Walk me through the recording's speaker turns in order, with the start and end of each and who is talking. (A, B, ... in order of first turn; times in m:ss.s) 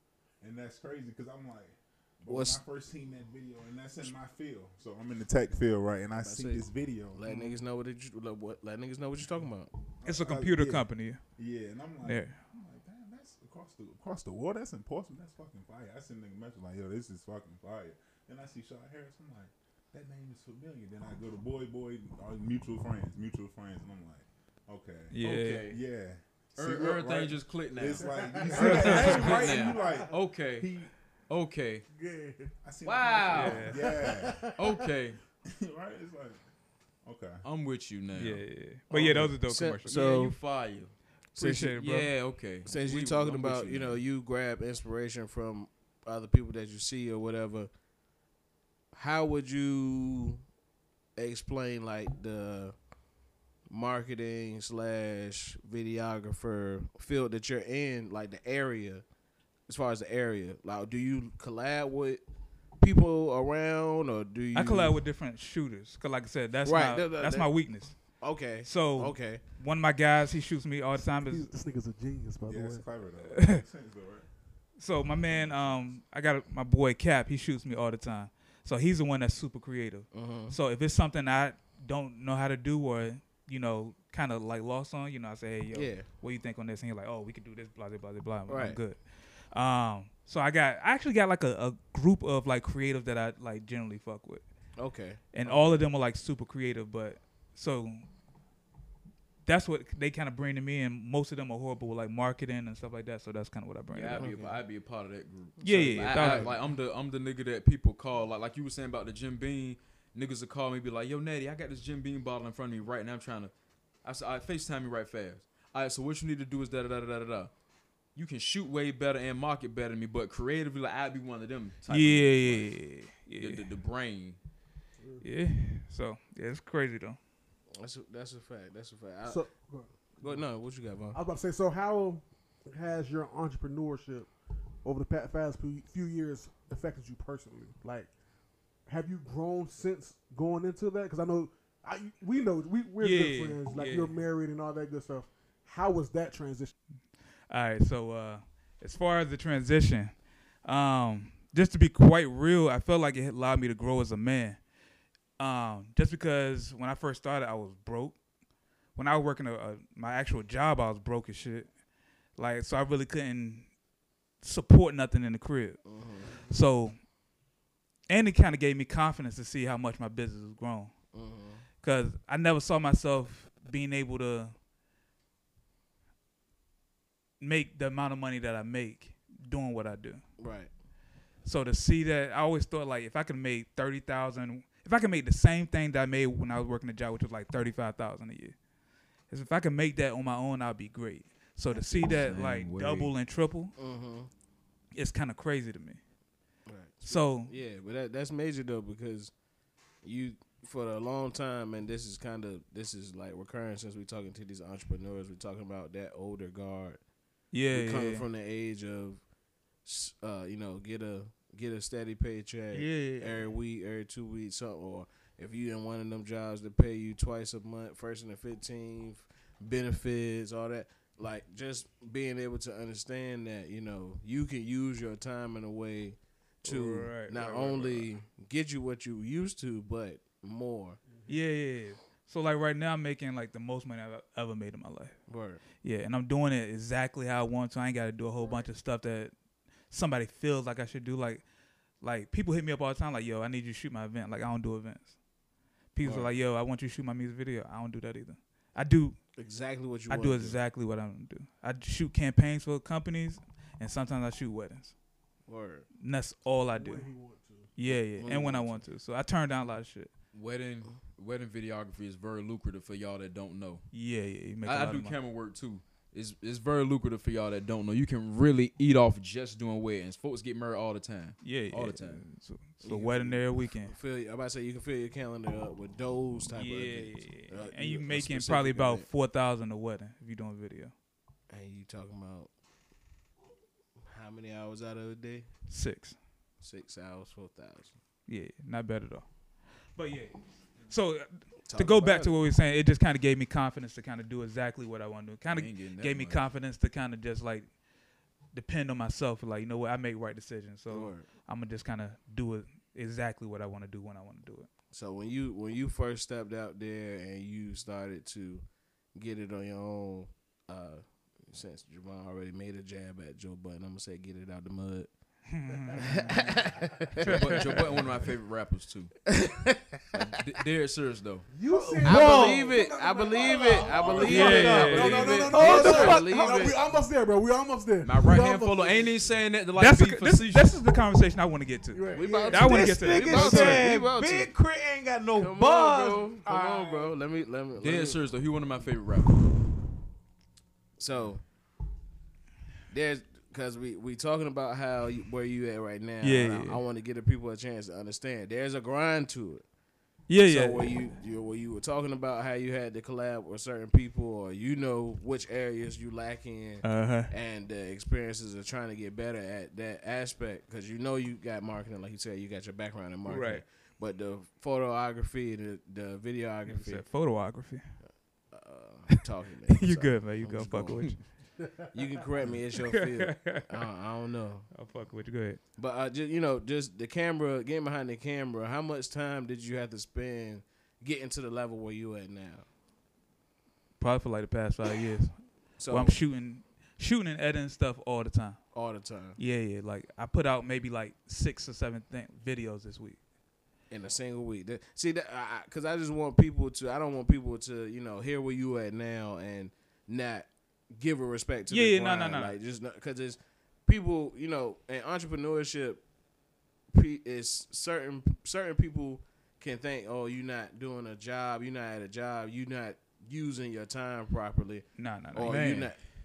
0:00.4-0:07.2 A
0:02.3-0:02.6 B
0:06.2-0:09.7 B
0:07.3-0:07.6 C
0:10.0-0:30.9 A
0:10.0-0:11.2 C
0:12.0-0:12.4 C
0:25.1-0:25.7 C
0:25.2-0:25.8 D
0:26.6-0:30.7 D
0:27.9-0:30.1 E
0:28.6-0:29.2 C
0:31.3-0:31.8 D
0:31.9-0:32.5 E
0:32.6-0:34.5 A
0:32.8-0:33.7 D
0:33.2-0:34.9 E
0:33.3-0:33.8 C
0:34.6-0:35.2 D
0:35.5-0:36.4 A
0:37.0-0:37.4 A
0:37.4-0:38.4 D
0:38.1-0:40.0 C
0:38.9-0:40.3 B
0:39.8-0:40.9 D
0:41.3-0:41.8 B
0:41.4-0:42.1 C
0:41.8-0:44.0 D
0:42.6-0:47.7 B
0:48.9-0:50.4 B
0:51.2-0:52.7 B
0:53.7-0:59.0 B
0:59.7-1:02.2 B
1:02.8-1:05.0 B
1:04.5-1:08.0 C
1:06.6-1:07.5 B
1:08.2-1:09.4 B
1:08.6-1:11.5 C
1:11.2-1:12.8 E
1:12.4-1:14.3 A
1:13.3-1:13.6 C
1:14.8-1:29.0 C
1:15.3-1:16.0 A
1:20.1-1:20.6 B
1:25.7-1:26.0 B
1:28.5-1:28.8 B
1:29.5-1:34.4 C
1:34.8-1:35.7 B
1:35.3-1:38.0 C
1:39.4-1:44.3 C
1:43.9-1:53.5 D
1:44.2-1:44.6 B
1:45.6-1:46.5 C
1:46.1-1:46.5 B
1:54.0-1:57.5 D
1:58.1-2:02.8 D
2:01.9-2:03.7 C
2:03.4-2:04.4 D
2:05.2-2:07.2 C
2:07.8-2:09.4 B
2:09.2-2:10.4 E
2:10.2-2:11.2 B
2:11.1-2:14.3 E
2:14.8-2:18.1 E
2:18.9-2:26.7 E
2:23.0-2:24.1 C
2:27.5-2:30.1 C
2:30.6-2:34.6 C
2:35.4-2:38.2 C
2:39.0-2:41.7 C
2:42.4-2:43.7 C
2:44.4-2:45.8 C
2:45.8-2:46.3 B
2:46.4-2:47.0 C
2:48.1-2:50.9 C
2:51.1-2:51.6 B
2:51.8-2:54.5 C
2:57.4-3:00.2 C
3:00.4-3:00.7 B
3:01.4-3:08.5 C
3:09.3-3:13.7 C
3:12.0-3:13.1 D
3:13.8-3:14.3 B
3:14.9-3:16.0 C
3:16.7-3:19.3 B
3:17.0-3:17.5 C
3:20.0-3:27.0 B
3:27.5-3:28.2 C
3:27.7-3:29.2 B
3:29.8-3:51.0 B
3:32.7-3:33.5 C
3:46.6-3:48.1 C
3:51.3-3:55.2 C
3:55.3-3:55.6 B
3:55.8-3:59.3 C
3:58.4-3:58.7 E
3:59.9-4:01.4 C
4:02.0-4:05.1 C
4:05.9-4:09.2 C
4:06.0-4:06.3 B
4:09.4-4:10.6 B
4:10.1-4:14.9 C
4:15.5-4:15.8 B
4:16.0-4:17.1 C
4:16.8-4:17.7 E
4:17.8-4:20.1 C
4:18.2-4:18.8 B
4:20.3-4:23.8 D
4:23.9-4:25.2 C
4:24.6-4:32.2 D
4:31.4-4:33.9 C
4:32.8-4:39.1 B
4:36.5-4:40.9 C
4:41.5-4:42.5 B
4:44.1-4:45.5 B
4:45.7-4:46.2 C
4:46.6-4:47.9 B
4:48.3-4:49.2 C
4:50.0-4:57.7 C
4:51.7-4:52.3 B
4:55.5-4:56.4 D
4:58.5-5:04.7 C
5:00.9-5:01.2 B
5:04.9-5:08.6 B
5:09.2-5:15.1 B
5:15.5-5:16.4 C
5:15.9-5:17.5 B
5:17.2-5:17.8 C
5:17.2-5:19.1 D
5:19.3-5:20.2 B
5:20.1-5:21.5 D
5:21.5-5:29.2 E
5:21.7-5:22.8 F
5:22.0-5:26.8 B
5:23.4-5:25.0 F
5:24.2-5:25.8 C
5:24.9-5:25.5 D
5:25.5-5:26.6 F
5:28.0-5:30.7 D
5:29.8-5:33.9 C
5:31.9-5:32.8 E
5:32.1-5:34.5 B
5:32.6-5:37.1 F
5:35.4-5:38.2 B
5:37.8-5:39.4 D
5:41.0-5:41.4 B
5:42.9-5:49.6 B
5:46.2-5:46.8 C
5:50.3-5:50.9 C
5:50.4-6:07.0 B
5:56.8-5:57.3 C
6:03.2-6:03.6 C
6:06.7-6:08.0 C
6:08.5-6:11.4 B
6:09.7-6:11.2 C
6:11.9-6:14.6 B
6:12.8-6:13.8 C
6:14.7-6:15.6 C
6:15.8-6:22.6 B
6:24.0-6:28.6 C
6:25.8-6:26.2 B
6:28.7-6:29.4 B
6:29.4-6:33.2 C
6:33.9-6:46.0 B
6:41.7-6:42.5 C
6:46.9-6:56.0 B
6:55.0-6:55.8 C
6:55.4-6:55.9 D